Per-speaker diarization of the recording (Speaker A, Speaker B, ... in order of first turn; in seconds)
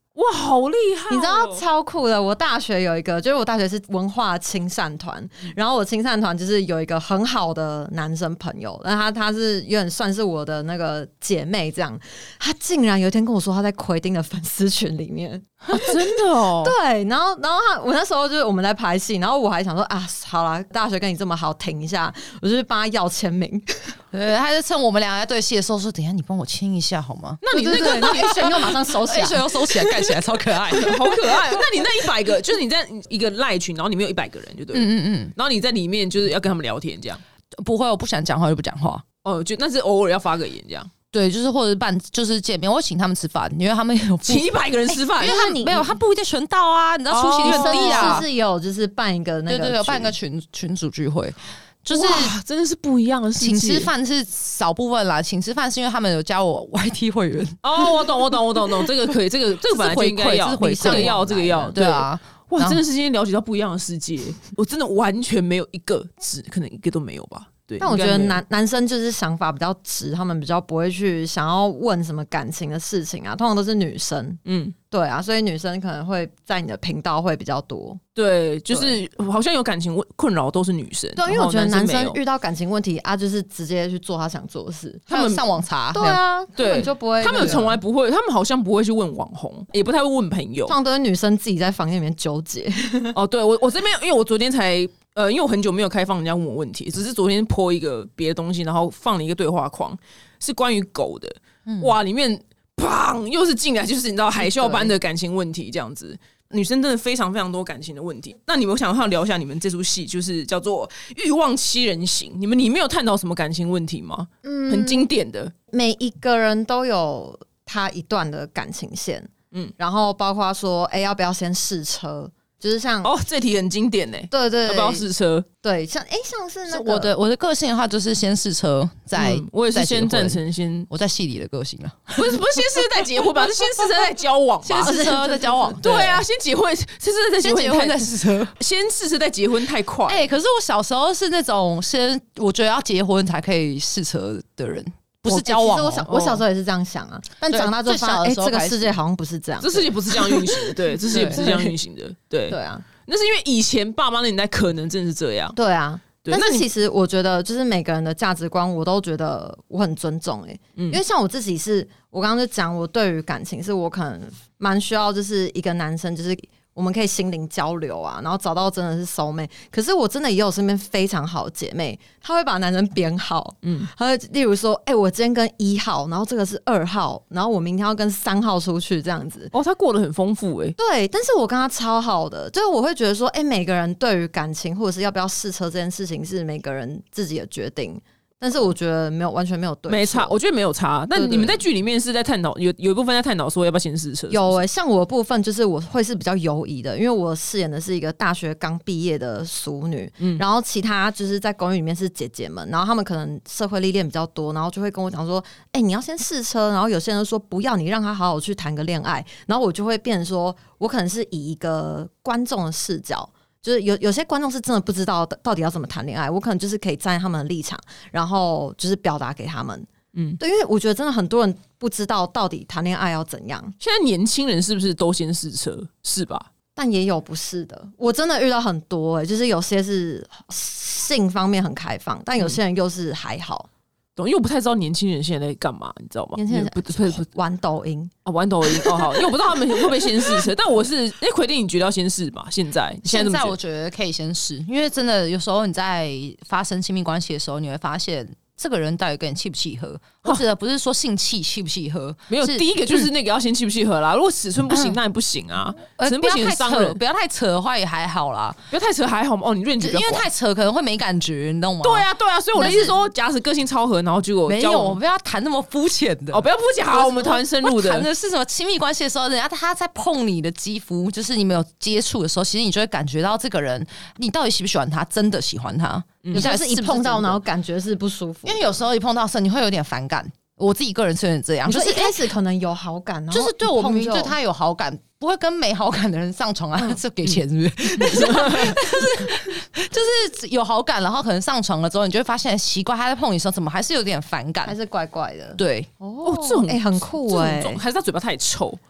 Speaker A: 0.1-1.6, 15.7-16.8, 27.4-28.8, 30.7-37.2, 39.2-40.9, 44.2-45.6, 47.1-48.2, 51.9-53.9, 57.6-68.4, 74.4-74.7, 78.2-82.2, 85.1-86.0, 86.5-90.7, 93.1-115.5, 123.0-125.5, 129.1-130.9, 132.2-135.0, 135.8-140.3, 146.1-146.4, 149.6-155.6, 156.2-156.7, 179.5-180.8, 189.9-194.6, 220.1-220.4, 223.8-226.5, 234.2-237.3, 238.2-243.5, 252.3-257.0, 258.7-260.2, 261.8-265.0, 266.3-268.1, 288.0-288.8, 296.2-298.8
Speaker B: 1.1-23.9, 27.5-29.9, 44.9-45.9, 47.4-50.1, 60.8-61.1, 67.8-74.4, 74.9-78.0, 78.7-79.0, 81.2-85.1, 85.9-87.8, 90.7-93.2, 104.4-104.9, 114.4-115.1, 115.7-123.1, 124.3-125.0, 125.6-127.1, 134.8-135.8, 145.2-151.7, 152.5-152.8, 155.5-179.5, 180.8-190.4, 191.1-191.6, 194.3-223.7, 226.8-233.7, 236.3-238.1, 238.7-239.3, 276.3-278.8, 281.6-284.3, 294.6-297.8
Speaker C: 24.1-31.4, 34.7-35.3, 37.5-39.0, 41.1-44.5, 45.2-48.3, 49.5-52.3, 53.4-58.1, 59.7-62.8, 85.1-86.2, 101.7-101.9, 126.7-133.9, 134.6-136.2, 137.4-138.5, 140.1-146.1, 147.5-148.9, 151.1-151.4, 243.0-253.1, 254.7-255.0, 255.9-258.6, 259.8-263.0, 264.4-277.4, 278.4-282.2, 283.3-294.8, 295.6-295.9